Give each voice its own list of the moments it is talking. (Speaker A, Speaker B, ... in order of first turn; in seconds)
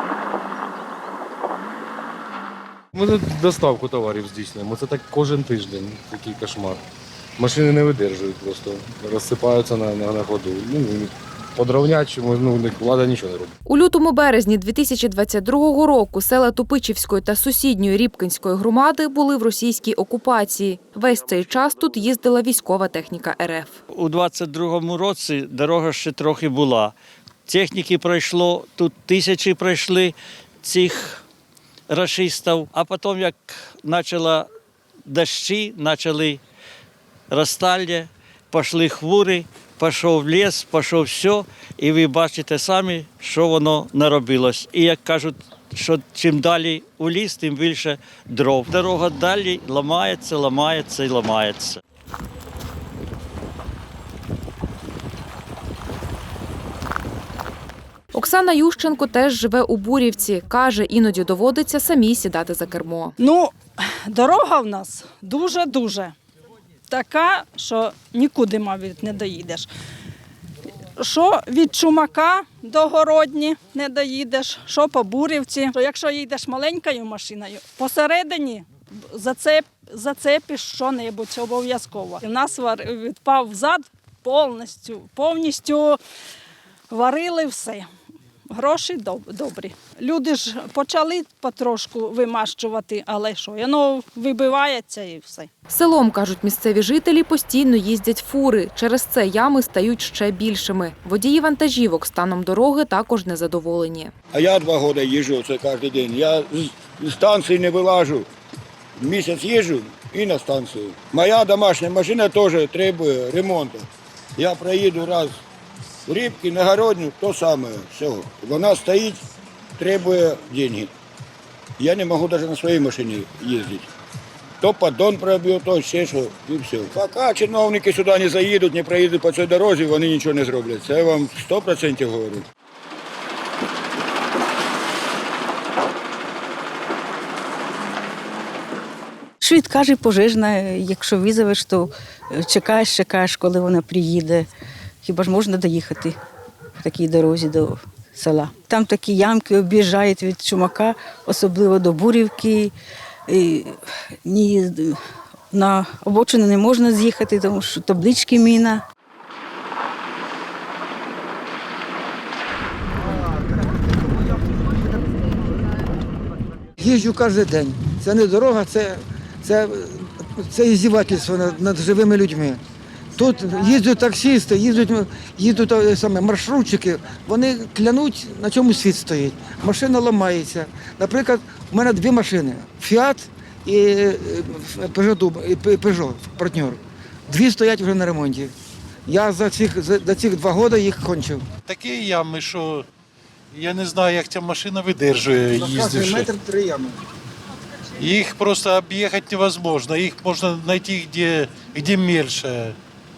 Speaker A: 2.9-6.8, 7.4-13.5
Speaker B: 13.7-23.8, 58.1-63.1, 95.7-104.1
Speaker C: 23.9-26.9, 27.5-31.2, 31.9-34.5, 35.1-36.4, 37.3-51.8
Speaker D: 63.2-66.2, 66.9-69.7, 71.0-86.0, 86.9-87.9, 88.5-95.5
Speaker E: 104.3-108.2, 109.0-113.8, 114.4-115.3, 116.1-119.2, 119.8-120.9, 121.8-123.8, 124.6-132.4
Speaker F: 139.4-141.9, 142.4-144.5, 145.0-146.2, 146.9-152.7, 153.3-153.7, 154.3-154.9, 155.5-158.8
Speaker G: 166.8-172.6, 173.2-188.5, 189.1-191.4, 195.5-197.0
Speaker H: 191.7-192.9, 193.5-196.3, 198.0-202.8